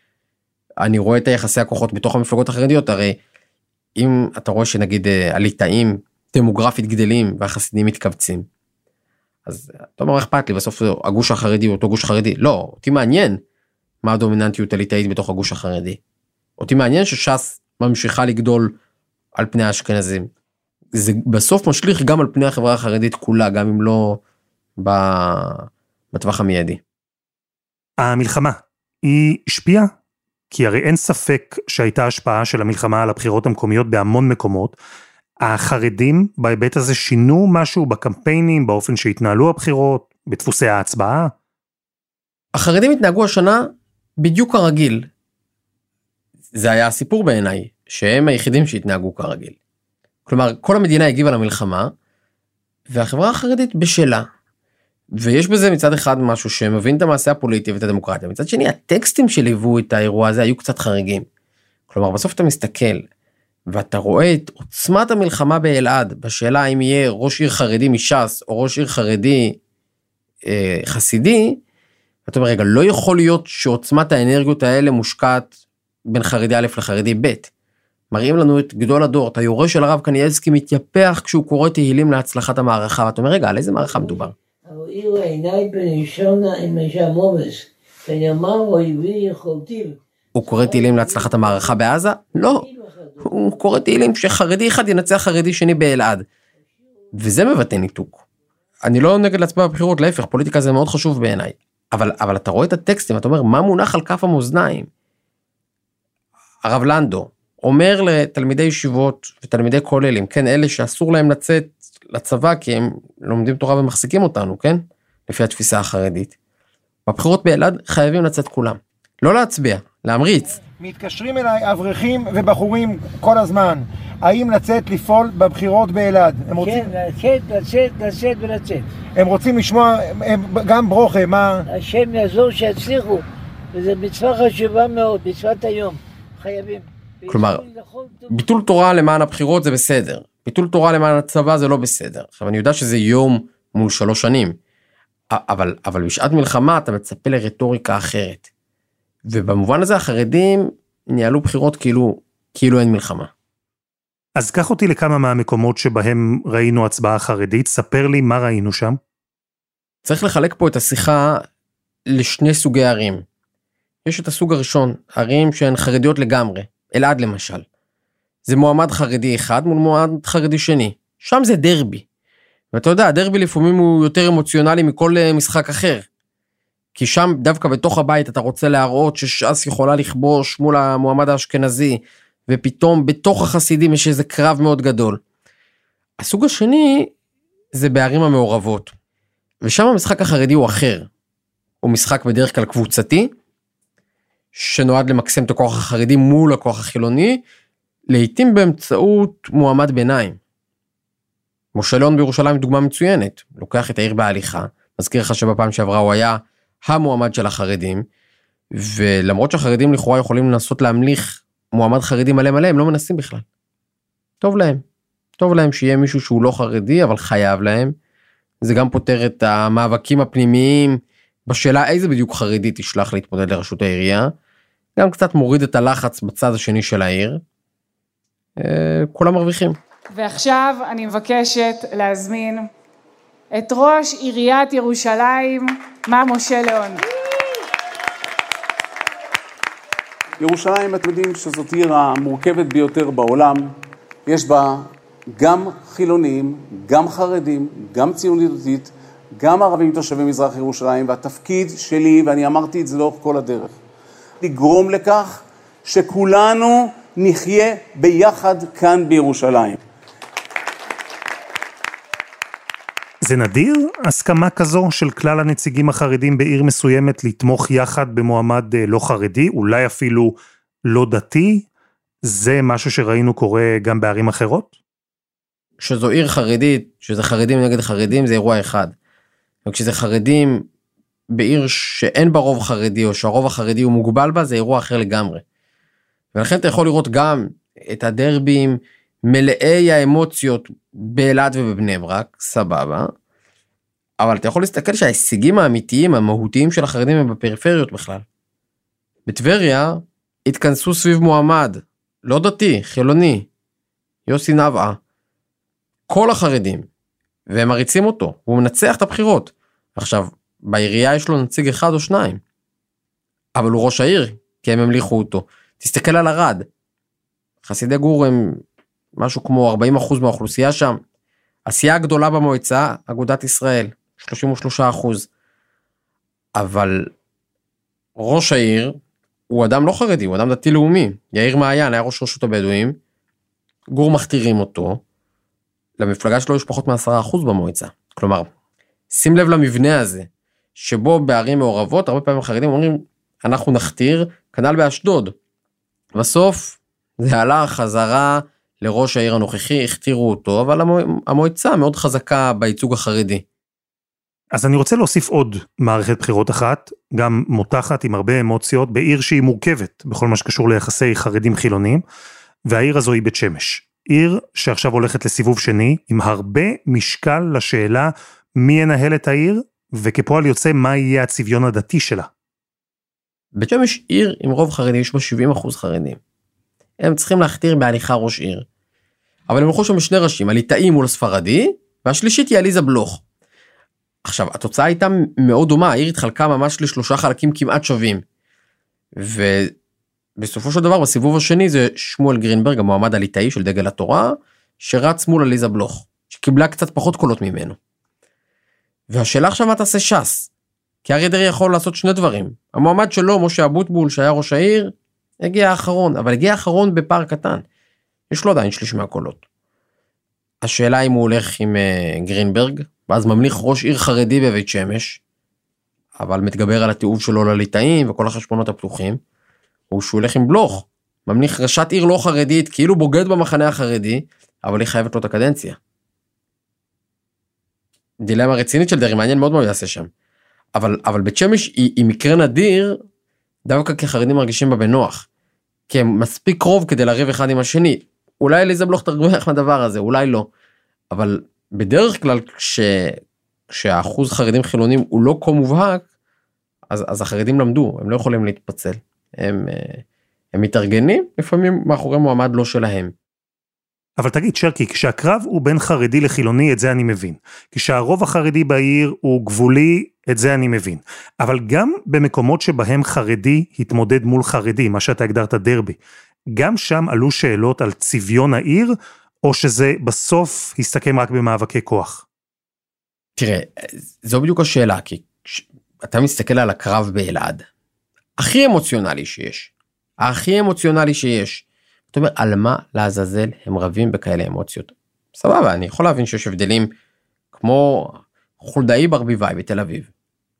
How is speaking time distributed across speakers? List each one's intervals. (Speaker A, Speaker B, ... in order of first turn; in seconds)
Speaker A: 0.8-3.2, 4.0-8.5, 9.4-13.4, 14.0-16.0, 16.6-18.8, 19.3-20.3, 20.9-24.2, 24.8-26.8, 42.5-45.0, 46.5-49.5, 50.2-51.9, 52.9-54.3, 55.1-61.2, 61.9-63.0, 63.7-69.6, 70.4-71.6, 72.3-75.5, 76.1-77.5, 78.1-84.3, 90.3-92.7, 93.2-96.2, 97.1-98.2, 98.8-104.9, 106.6-116.3, 117.0-120.6, 137.3-137.6, 138.3-144.6, 145.3-148.5, 149.3-153.3, 160.0-161.4, 162.1-163.2, 164.0-167.7, 168.5-172.0, 172.7-176.1, 176.9-185.2, 186.2-187.1, 187.7-188.9, 189.6-191.1, 191.8-193.3, 194.5-197.4, 198.1-200.4, 201.7-208.1, 208.7-213.4, 214.4-214.8, 215.4-217.9, 218.6-224.3, 225.0-227.4, 228.6-229.8, 275.8-278.9, 279.6-280.7, 281.3-285.4, 286.3-293.1, 294.2-298.2, 299.2-303.5, 304.3-305.0, 306.1-306.9, 307.5-312.4, 313.6-316.7, 317.6-318.6, 319.2-321.0, 321.6-325.3, 326.6-327.1, 328.2-329.0, 329.5-333.0, 333.9-335.0, 336.0-338.5, 339.1-345.4, 346.1-353.4, 373.6-376.2, 377.0-378.6, 379.5-383.2, 384.2-388.2, 389.2-389.8, 390.4-397.8, 399.1-400.5, 401.0-407.6, 408.3-409.4, 410.6-415.2, 416.2-419.2, 419.9-425.8, 428.2-430.1, 430.8-433.0, 433.6-435.2, 435.9-440.5, 441.1-446.0, 446.9-453.1, 473.4-477.6, 478.4-486.9, 487.5-490.1
Speaker B: 28.0-29.9, 30.5-34.8, 35.4-41.3, 154.4-159.0, 263.2-270.3, 270.9-271.6, 272.2-274.8, 354.5-362.0, 362.7-372.3, 454.2-466.0, 466.5-468.9, 469.4-472.2
Speaker C: 83.9-93.6, 126.5-128.8, 131.7-138.3
Speaker D: 120.8-126.9, 129.2-131.6
Speaker E: 230.1-232.7, 233.5-237.0
Speaker F: 240.4-243.7, 244.2-253.8, 254.4-259.8